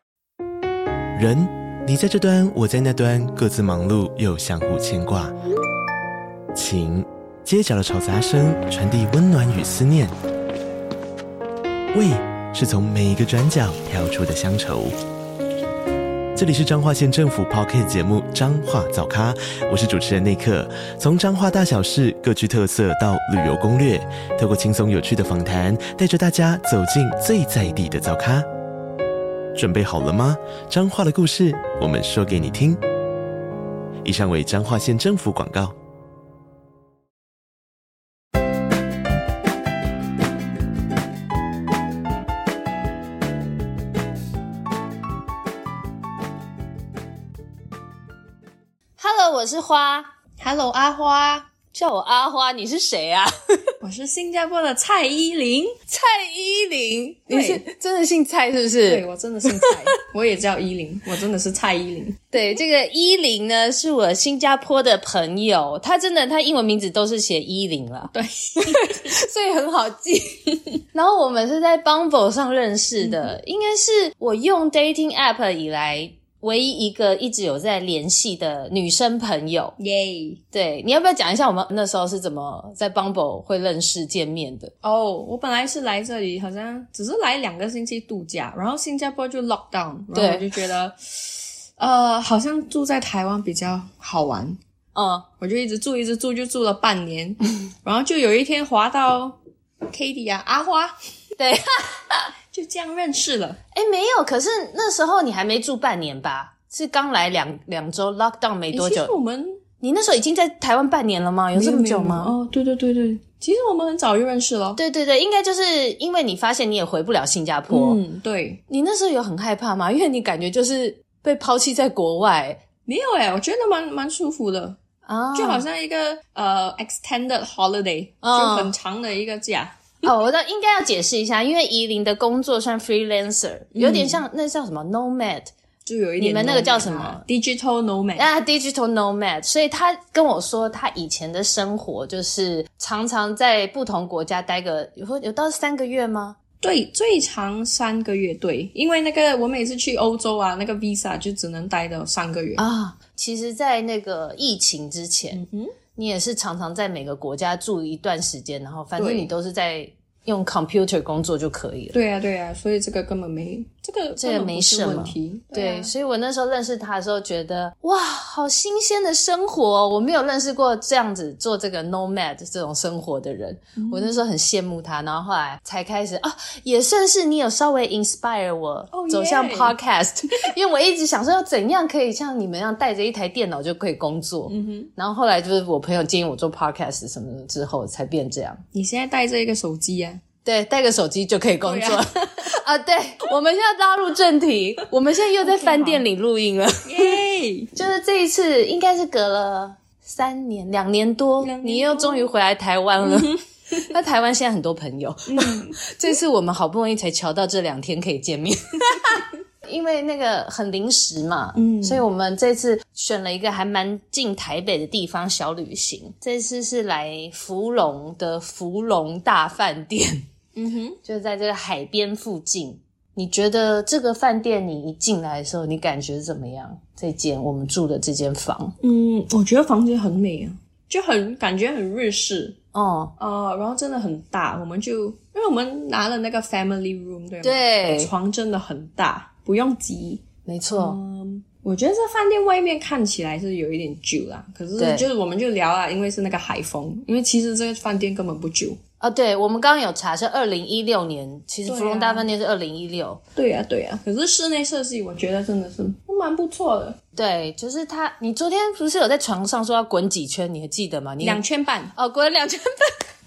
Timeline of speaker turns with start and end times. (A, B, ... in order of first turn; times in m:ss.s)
0:01.1-0:05.3 A
0:06.5-0:10.1 A
0:11.9-0:15.0 A
0:16.3-0:28.5 A
0:29.5-0:32.8 A
0:34.0-0:35.7 A
0:49.0-0:50.1 B
0:50.4-0:51.5 C
0:51.7-0:53.7 B
0:53.8-0:55.8 C
0:55.9-0:59.0 B
0:57.3-0:57.6 C
0:58.8-1:02.3 C
1:02.3-1:19.7 B
1:08.1-1:09.1 C
1:13.0-1:13.3 C
1:19.8-1:20.4 C
1:20.5-1:24.7 B
1:24.8-1:34.6 C
1:30.1-1:30.5 B
1:34.9-1:35.3 B
1:35.4-1:40.9 C
1:41.4-1:42.3 B
1:42.5-1:43.6 C
1:43.7-1:49.1 B
1:48.7-1:49.6 C
1:49.8-1:52.3 B
1:51.5-1:54.8 C
1:54.8-1:58.0 B
1:57.7-1:58.6 C
1:58.7-2:02.6 B
2:02.8-2:04.8 C
2:05.0-2:05.6 B
2:05.3-2:09.9 C
2:08.2-2:08.7 B
2:10.0-2:15.5 B
2:13.7-2:14.2 C
2:15.8-2:18.3 C
2:16.2-2:17.2 B
2:18.2-2:26.4 B
2:26.6-2:32.6 C
2:32.6-2:35.4 B
2:35.3-2:35.8 C
2:35.9-2:41.9 B
2:39.0-2:39.3 C
2:41.9-2:45.9 C
2:44.2-3:08.6 B
2:53.8-2:54.2 C
2:58.9-2:59.7 C
3:04.5-3:04.9 C
3:08.7-3:10.2 C
3:10.4-3:17.2 B
3:11.6-3:12.5 C
3:15.4-3:16.0 C
3:16.8-3:17.7 C
3:17.7-3:40.2 B
3:21.4-3:22.3 C
3:23.0-3:23.8 C
3:25.3-3:25.9 C
3:31.5-3:32.0 C
3:40.5-3:41.0 C
3:41.0-3:48.8 B
3:48.8-3:52.6 C
3:52.7-3:53.1 B
3:53.2-4:08.8 C
3:57.4-3:58.1 B
4:00.4-4:01.0 B
4:04.8-4:05.1 B
4:09.0-4:13.2 B
4:11.6-4:12.3 C
4:13.3-4:17.0 C
4:17.1-4:21.4 B
4:21.2-4:21.9 C
4:21.9-4:22.9 B